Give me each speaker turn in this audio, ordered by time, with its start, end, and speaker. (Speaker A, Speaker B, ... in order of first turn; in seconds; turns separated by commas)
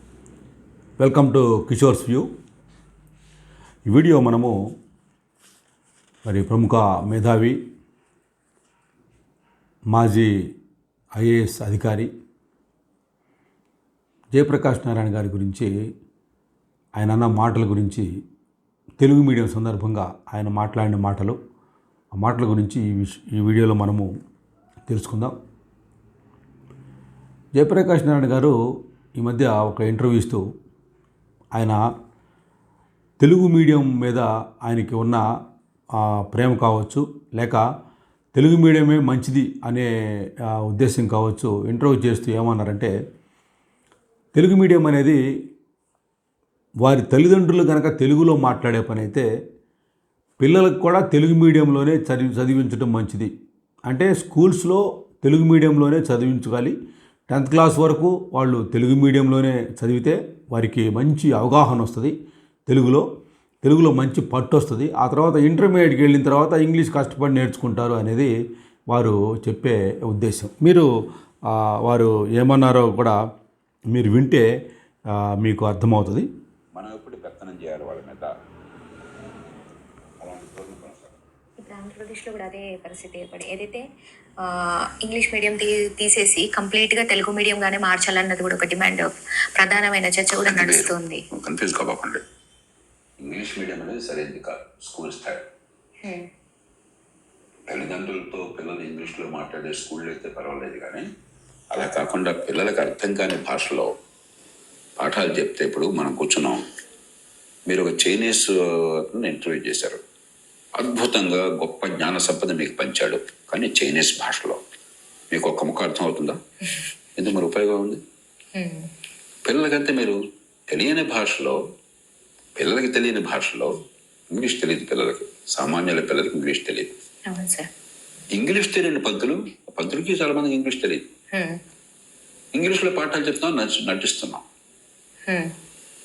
Speaker A: 1.0-2.3, Speaker A: 3.9-4.5, Speaker A: 6.2-7.6, Speaker A: 9.9-10.3, Speaker A: 11.2-12.1, Speaker A: 14.3-15.7, Speaker A: 16.9-18.0, Speaker A: 19.0-21.4, Speaker A: 22.2-24.1, Speaker A: 24.9-25.3, Speaker A: 27.6-28.5, Speaker A: 29.2-30.4, Speaker A: 33.2-35.2, Speaker A: 36.3-37.6, Speaker A: 38.3-39.9, Speaker A: 40.6-42.9, Speaker A: 44.3-45.2, Speaker A: 46.8-49.2, Speaker A: 50.4-53.3, Speaker A: 53.9-56.7, Speaker A: 57.3-62.1, Speaker A: 62.7-63.0, Speaker A: 63.6-68.3, Speaker A: 68.9-70.8, Speaker A: 71.5-73.1, Speaker A: 73.9-74.4, Speaker A: 75.4-76.3, Speaker B: 76.7-78.3, Speaker B: 80.2-81.2, Speaker C: 81.6-83.8, Speaker C: 84.4-91.2, Speaker B: 90.4-92.2, Speaker B: 93.2-95.4, Speaker B: 97.7-101.0, Speaker B: 101.7-103.9, Speaker B: 105.0-106.6, Speaker B: 107.7-108.5, Speaker B: 109.1-110.0, Speaker B: 110.8-114.6, Speaker B: 115.3-116.3, Speaker B: 117.2-118.0, Speaker C: 118.5-118.9, Speaker B: 119.4-120.2, Speaker B: 120.7-121.5, Speaker B: 122.6-123.7, Speaker B: 124.3-126.9, Speaker C: 127.3-127.7, Speaker B: 128.3-131.0, Speaker B: 132.5-134.4